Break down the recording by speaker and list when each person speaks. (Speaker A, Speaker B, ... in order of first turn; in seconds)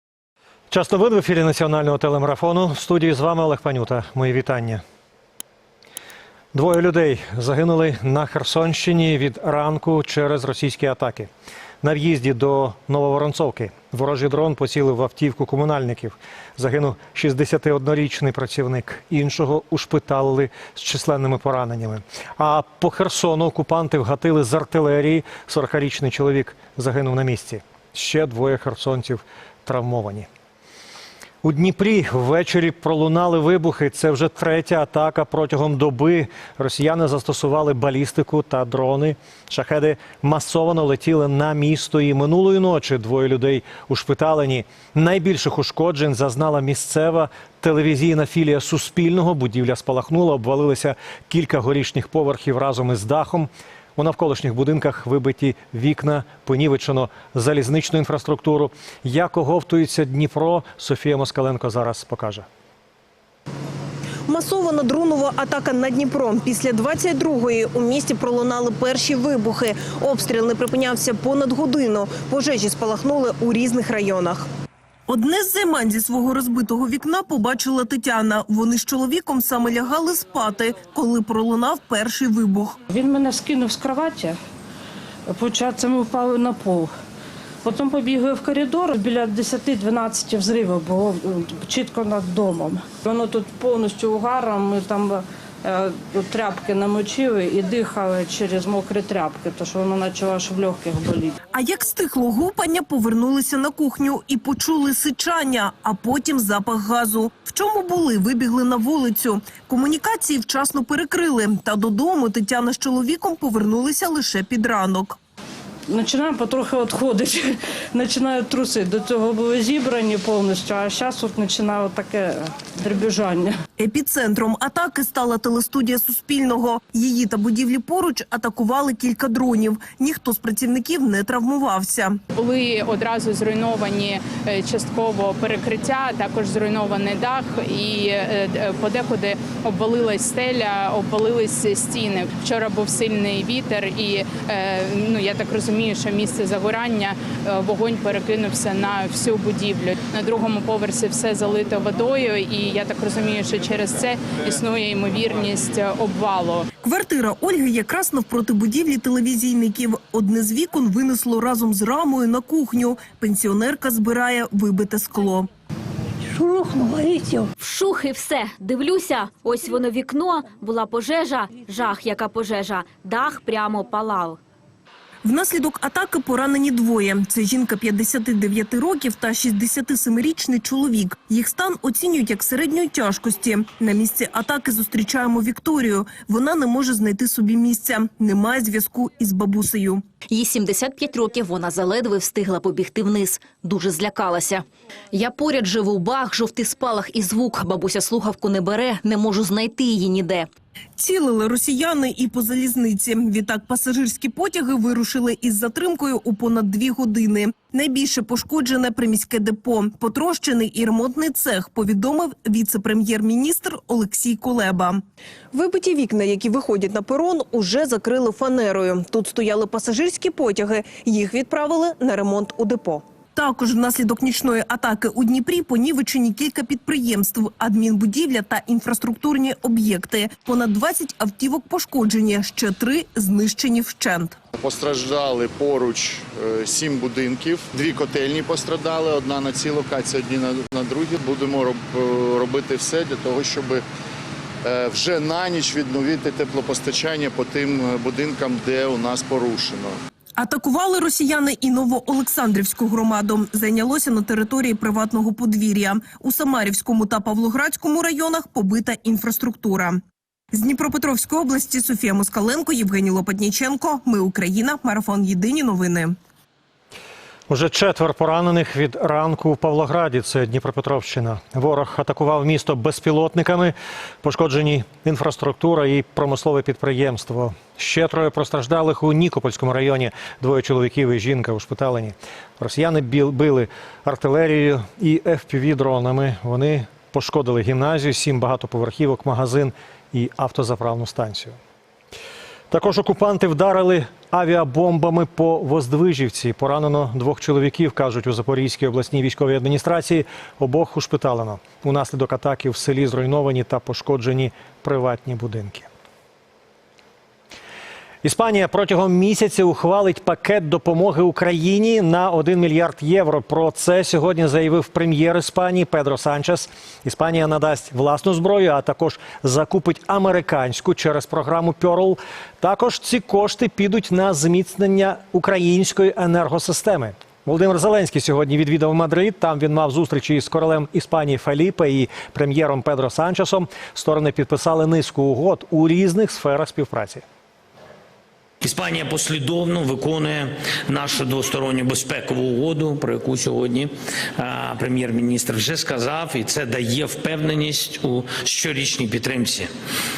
Speaker A: 0.7-4.8, 6.5-11.3, 11.8-30.3, 31.4-62.5, 267.5-291.6, 292.7-305.9, 308.2-337.2
Speaker B: 64.3-74.5, 75.1-82.8, 101.5-115.2, 123.8-132.2, 156.8-165.5, 175.2-190.0, 201.0-215.0, 215.5-234.3, 250.4-260.0, 260.5-266.1
Speaker C: 82.9-84.4, 85.3-86.9, 87.6-101.3, 115.9-123.5
Speaker D: 132.3-156.7
Speaker E: 166.5-167.4, 190.3-200.5
Speaker F: 167.6-174.3
Speaker G: 234.5-243.8, 244.6-250.0
Speaker H: 338.6-349.7